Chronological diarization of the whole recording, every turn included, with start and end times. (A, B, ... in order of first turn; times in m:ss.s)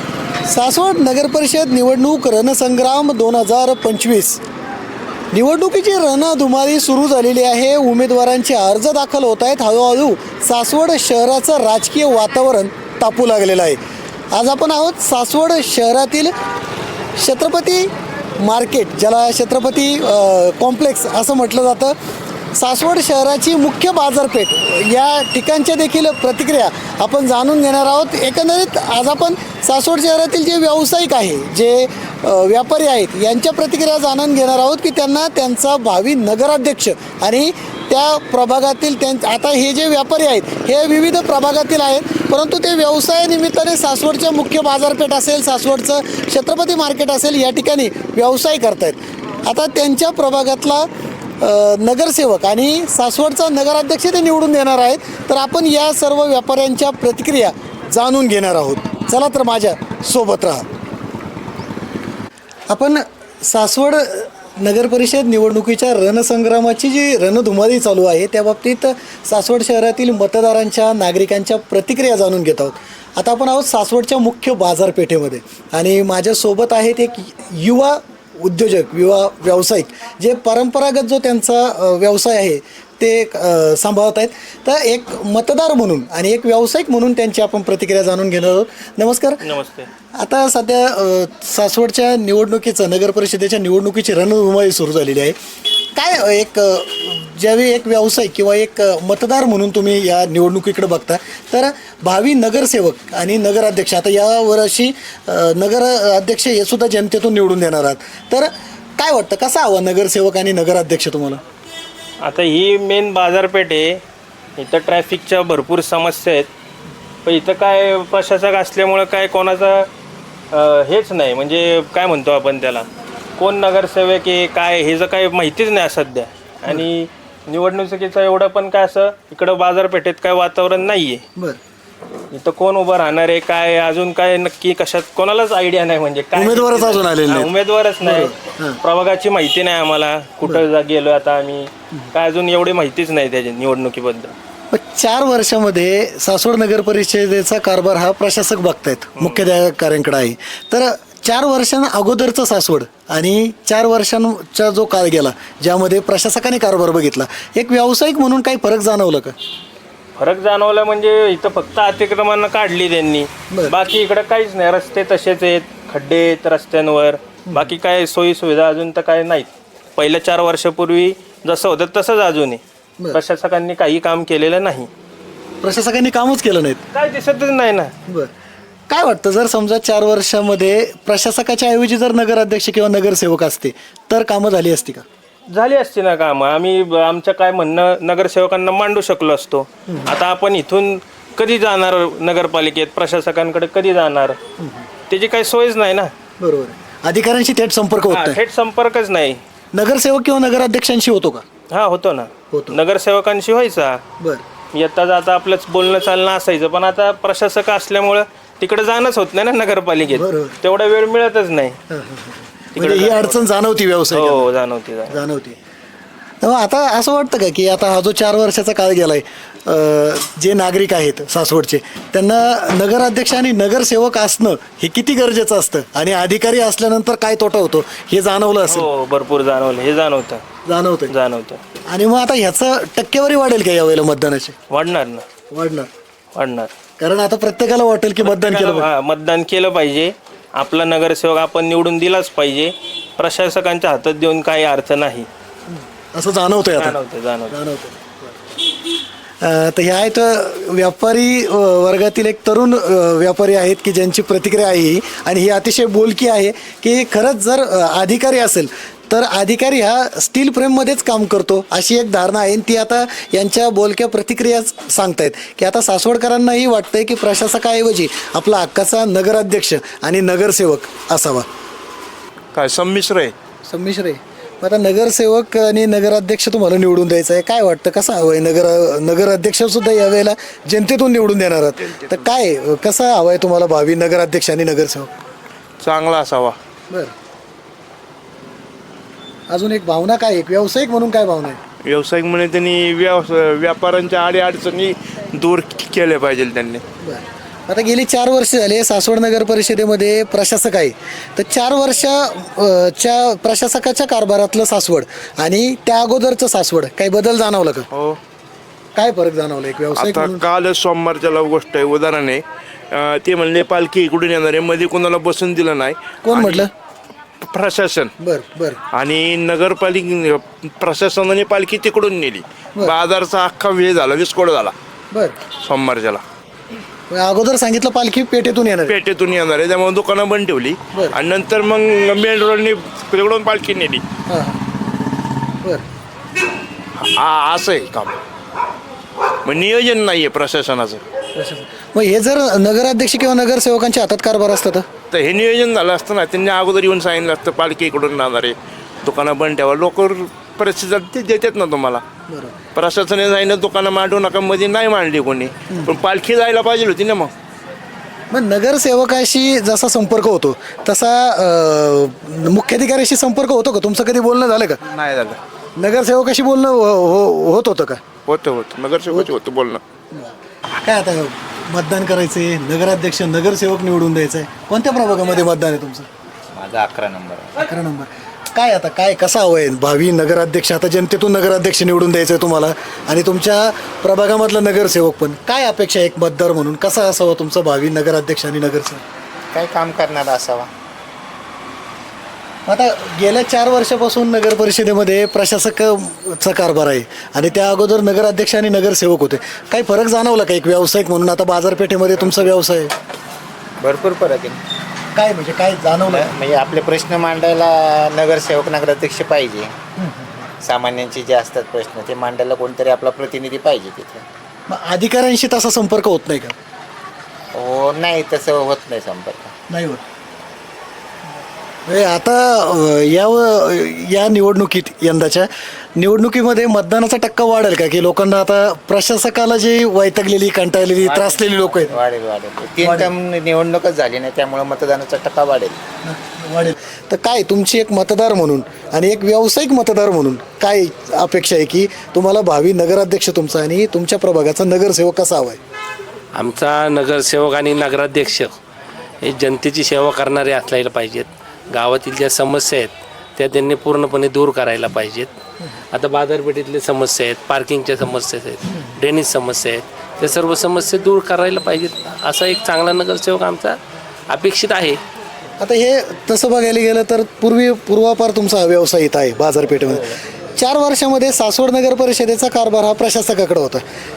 0:00.5-0:04.4 A
0:05.3-0:13.8 A
0:14.3-0:16.3 A
0:17.2-0:22.0 A
0:22.5-0:50.9 A
0:51.4-1:00.6 A
1:02.7-1:29.4 A
1:29.4-1:29.9 B
1:30.2-1:35.4 A
1:35.9-1:51.4 A
1:52.2-1:54.0 B
1:54.6-1:56.5 B
1:57.2-1:59.9 B
2:00.5-2:11.2 B
2:12.3-2:24.3 B
2:16.3-2:18.8 A
2:24.7-2:39.3 A
2:29.2-2:29.4 B
2:40.2-2:52.6 B
2:53.1-2:54.9 B
2:55.6-2:56.8 A
2:56.9-2:57.9 B
2:58.9-3:05.0 A
3:05.5-3:14.4 B
3:14.6-3:14.9 A
3:15.1-3:16.1 B
3:16.4-3:18.4 A
3:18.1-3:19.4 B
3:19.7-3:21.4 A
3:21.7-3:24.0 B
3:24.7-3:31.8 B
3:30.1-3:30.6 A
3:31.9-3:34.5 A
3:32.8-3:33.5 B
3:34.1-3:35.2 B
3:35.1-3:35.6 A
3:36.4-3:48.9 A
3:48.7-3:50.4 B
3:50.7-3:51.1 A
3:51.1-3:51.6 B
3:51.9-3:54.6 A
3:54.7-3:55.2 B
3:55.5-3:55.9 A
3:56.3-3:56.7 B
3:57.0-3:58.9 A
3:58.2-4:05.3 B
4:05.7-4:07.0 A
4:06.7-4:07.6 B
4:07.5-4:08.5 A
4:09.4-4:31.5 A
4:32.6-4:33.3 C
4:33.7-4:45.1 A
4:45.8-4:46.6 C
4:49.5-4:51.6 A
4:51.8-4:56.8 C
4:57.0-5:07.9 A
5:07.9-5:08.2 C
5:09.0-5:10.4 A
5:09.9-5:12.4 C
5:12.9-5:16.7 C
5:16.2-5:16.7 A
5:17.4-5:18.1 C
5:18.2-5:18.8 A
5:18.9-5:24.7 C
5:25.1-5:25.4 A
5:25.6-5:26.2 C
5:27.1-5:28.9 A
5:28.9-5:34.0 C
5:34.3-5:34.6 A
5:37.0-5:38.2 C
5:39.5-5:41.0 C
5:41.4-5:44.9 A
5:45.1-5:52.0 C
5:52.3-5:52.6 A
5:52.8-5:57.3 C
5:58.3-6:04.8 A
6:04.9-6:05.4 C
6:05.8-6:08.0 A
6:08.3-6:09.8 C
6:10.1-6:16.1 A
6:16.5-6:17.6 D
6:17.6-6:29.0 A
6:29.5-6:30.7 D
6:32.7-6:42.9 A
6:43.8-6:44.6 D
6:45.2-6:46.3 A
6:46.1-6:49.8 D
6:50.0-6:50.5 A
6:50.6-6:54.2 D
6:54.7-6:56.6 A
6:57.5-6:59.5 D
6:59.7-7:00.0 A
7:01.9-7:12.0 A
7:11.0-7:15.8 D
7:12.8-7:13.1 A
7:16.0-7:25.6 A
7:26.3-7:28.5 E
7:29.2-7:35.3 E
7:35.9-7:43.8 E
7:44.3-7:45.0 E
7:45.6-7:53.8 A